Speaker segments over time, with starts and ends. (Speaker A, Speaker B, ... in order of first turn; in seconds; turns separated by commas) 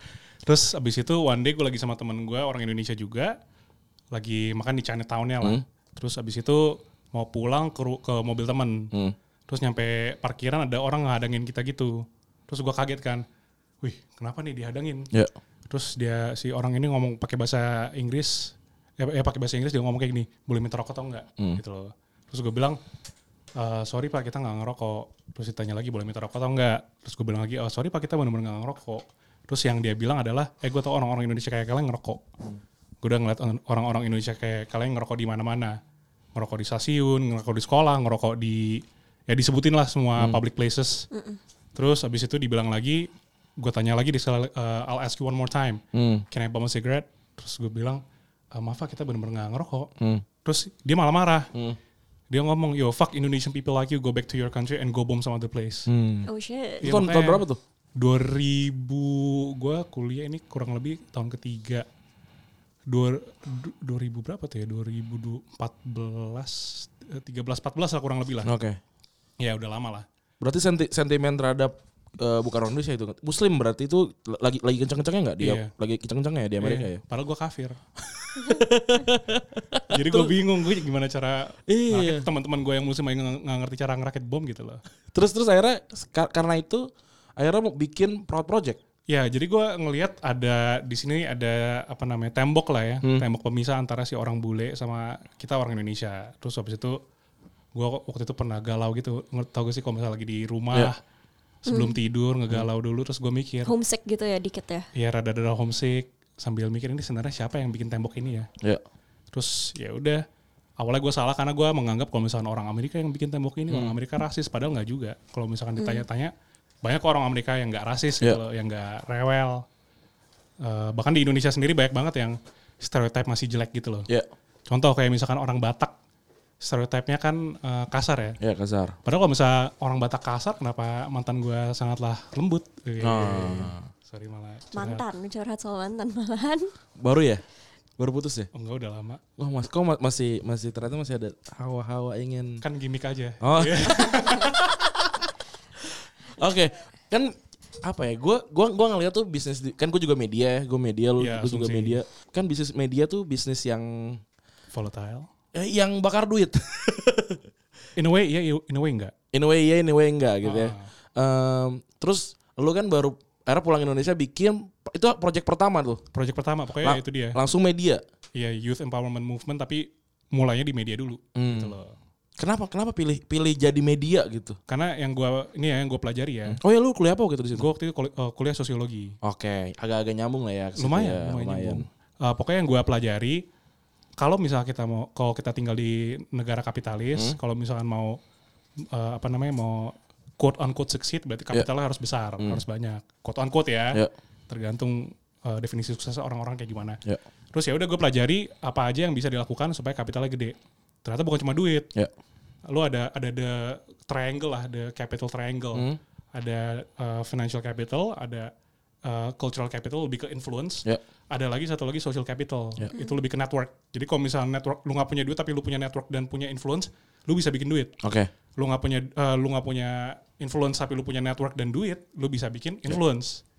Speaker A: 0.5-3.4, Speaker A: 4.1-8.9, Speaker A: 9.5-13.2, Speaker A: 13.8-15.1, Speaker A: 15.7-22.8, Speaker A: 23.6-32.2, Speaker A: 33.0-35.8, Speaker A: 36.4-41.1, Speaker B: 41.1-41.4, Speaker A: 41.8-48.0, Speaker C: 45.9-46.2, Speaker A: 48.5-49.9, Speaker C: 50.0-50.2, Speaker A: 50.4-51.5, Speaker A: 52.3-55.9, Speaker C: 55.9-56.3, Speaker B: 56.3-56.9, Speaker A: 56.8-57.5, Speaker C: 56.8-57.6, Speaker A: 58.0-61.9, Speaker A: 62.9-68.5, Speaker C: 68.4-68.8, Speaker A: 69.4-70.1, Speaker C: 70.4-77.0, Speaker A: 75.4-75.7, Speaker A: 76.6-77.8, Speaker C: 78.3-80.3, Speaker A: 79.9-84.8, Speaker C: 81.7-82.3, Speaker C: 85.1-88.8, Speaker A: 89.1-97.0, Speaker A: 97.8-101.0, Speaker A: 101.7-103.7, Speaker B: 101.7-102.0, Speaker B: 103.7-104.9, Speaker A: 105.0-108.5, Speaker A: 109.3-110.2, Speaker A: 110.8-116.3, Speaker C: 113.7-114.0, Speaker B: 115.8-116.0, Speaker A: 116.8-119.7, Speaker A: 120.6-124.1, Speaker A: 124.7-125.9, Speaker A: 126.6-128.4, Speaker C: 128.4-129.0, Speaker A: 129.1-135.0, Speaker C: 133.0-133.9, Speaker B: 134.7-136.7, Speaker C: 137.0-137.4, Speaker C: 138.0-138.5, Speaker A: 138.5-139.2, Speaker C: 139.4-142.6, Speaker A: 142.6-144.7, Speaker C: 143.4-145.2, Speaker C: 146.4-154.2, Speaker A: 151.2-152.0, Speaker A: 154.7-155.3, Speaker C: 155.5-157.4, Speaker A: 158.0-159.1, Speaker C: 159.3-166.0, Speaker A: 160.4-160.9, Speaker A: 166.1-167.4, Speaker C: 166.8-168.0, Speaker A: 168.3-171.9, Speaker C: 171.4-171.8, Speaker C: 172.4-174.6, Speaker A: 174.7-176.6, Speaker C: 176.5-177.7, Speaker A: 177.6-179.2, Speaker C: 179.2-181.8, Speaker A: 180.8-183.4, Speaker A: 184.2-188.2, Speaker A: 188.9-197.0, Speaker A: 197.5-201.9, Speaker A: 202.7-208.5, Speaker C: 205.7-206.0, Speaker A: 209.0-218.0, Speaker C: 218.0-218.3, Speaker A: 218.6-223.4